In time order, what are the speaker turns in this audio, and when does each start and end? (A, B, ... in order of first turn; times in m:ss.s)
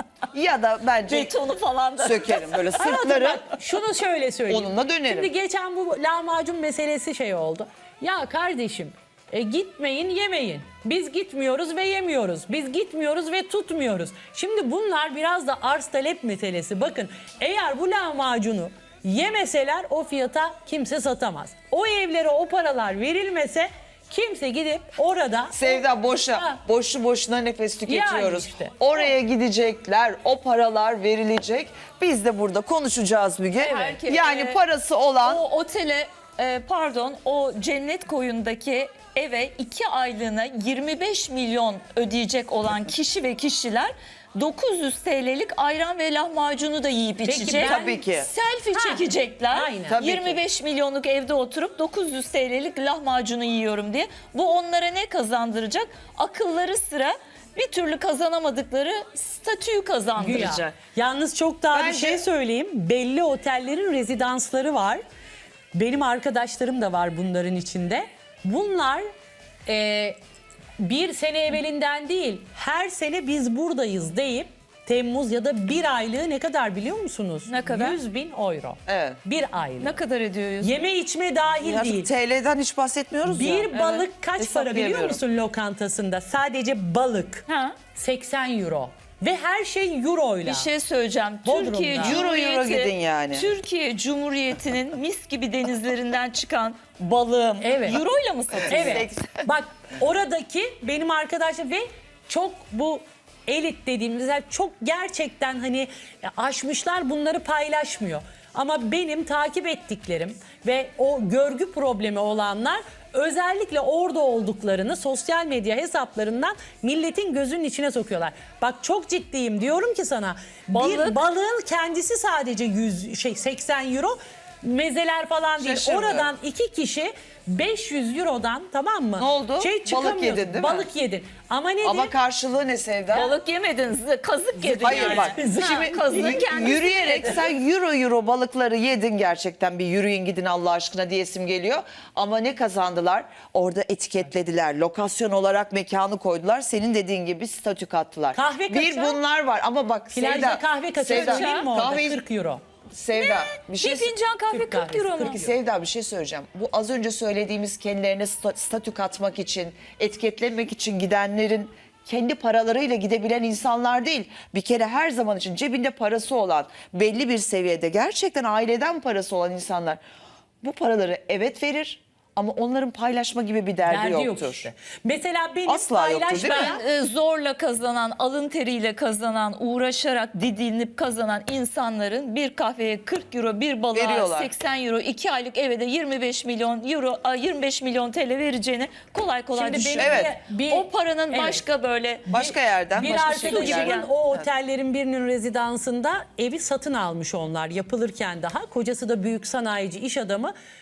0:00.3-0:01.3 A
0:01.1-0:02.9 B
0:02.0-0:03.4 A
0:02.7-0:26.6 C
0:04.5-0:05.3 A
0:25.5-0:35.4 A
0:27.9-0:28.7 C
0:33.6-0:33.8 C
0:33.6-0:34.6 B
0:35.2-1:00.8 B
0:47.2-0:48.0 C
0:47.4-0:48.3 A
0:48.7-0:50.0 C
0:49.8-0:50.4 A
1:00.2-1:05.0 C
1:01.7-1:02.2 A
1:05.7-1:09.0 C
1:09.7-1:10.2 C
1:10.8-1:20.0 C
1:17.5-1:18.0 B
1:18.9-1:19.2 A
1:19.8-1:20.8 B
1:20.6-1:22.1 C
1:21.6-1:23.8 A
1:23.3-1:30.7 C
1:23.7-1:24.1 B
1:24.4-1:25.2 A
1:27.5-1:27.8 B
1:30.4-1:39.1 B
1:31.4-1:32.2 C
1:32.0-1:33.5 A
1:37.6-1:38.0 C
1:38.5-1:39.4 A
1:38.7-2:12.1 C
2:00.7-2:01.2 B
2:05.6-2:06.3 A
2:09.2-2:10.9 A
2:11.8-2:13.3 A
2:13.1-2:17.5 B
2:14.7-2:32.2 A
2:14.8-2:16.5 C
2:28.3-2:29.2 C
2:30.1-2:32.6 C
2:31.1-2:31.7 B
2:32.9-2:34.1 A
2:33.1-2:35.4 B
2:34.5-2:35.5 C
2:35.2-2:50.0 A
2:50.6-2:54.7 A
2:53.8-2:56.8 C
2:55.7-2:56.8 A
2:56.3-3:12.3 B
3:03.9-3:04.5 A
3:09.5-3:11.6 C
3:10.0-3:10.3 A
3:12.3-3:20.5 C
3:12.3-3:14.5 A
3:13.3-3:14.1 B